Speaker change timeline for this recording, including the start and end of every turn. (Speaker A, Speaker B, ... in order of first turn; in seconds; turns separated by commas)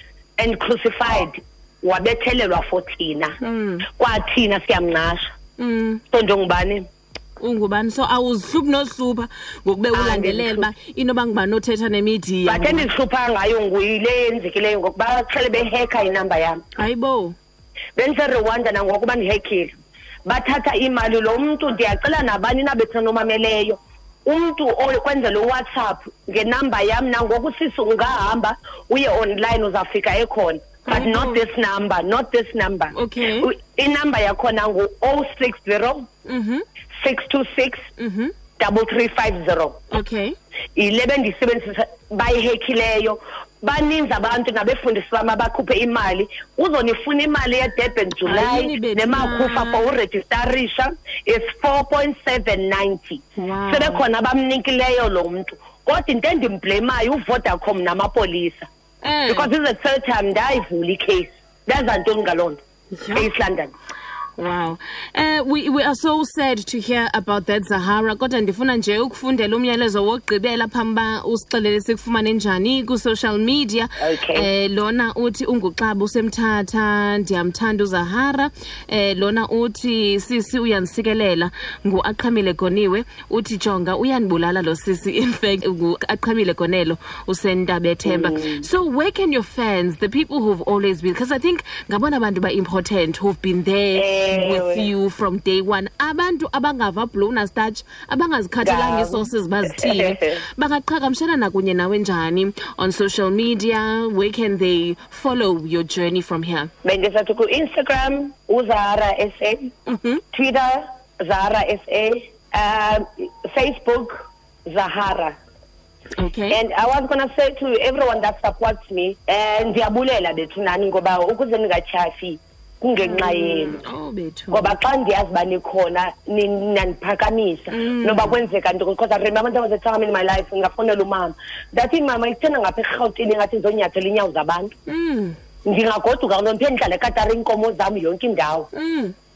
Speaker A: 0.4-3.4, Speaker B: 3.4-3.9, Speaker A: 4.0-5.3, Speaker B: 5.6-6.0, Speaker A: 6.1-6.9, Speaker B: 7.4-12.9, Speaker A: 9.9-10.7, Speaker A: 12.5-16.6, Speaker B: 16.8-17.4, Speaker A: 18.0-19.7, Speaker A: 20.3-36.1, Speaker B: 30.9-31.4, Speaker B: 32.9-33.5, Speaker B: 36.3-36.6, Speaker A: 36.9-37.9, Speaker B: 38.0-38.3, Speaker A: 38.6-39.8, Speaker B: 39.9-40.4, Speaker A: 40.8-58.7, Speaker B: 48.2-49.9, Speaker B: 53.4-54.0, Speaker B: 59.0-59.5, Speaker A: 59.3-62.6, Speaker B: 62.9-63.3, Speaker A: 63.1-63.7, Speaker B: 64.4-106.7, Speaker A: 74.0-74.5, Speaker A: 88.0-88.7, Speaker A: 94.0-94.9, Speaker A: 98.6-100.3, Speaker A: 106.8-109.7, Speaker B: 109.9-110.2, Speaker A: 110.3-115.4, Speaker B: 116.2-116.6, Speaker A: 116.5-123.8, Speaker B: 123.0-124.8, Speaker A: 124.5-134.7, Speaker B: 127.7-128.4, Speaker B: 134.9-135.4, Speaker A: 135.7-138.7, Speaker B: 138.7-139.2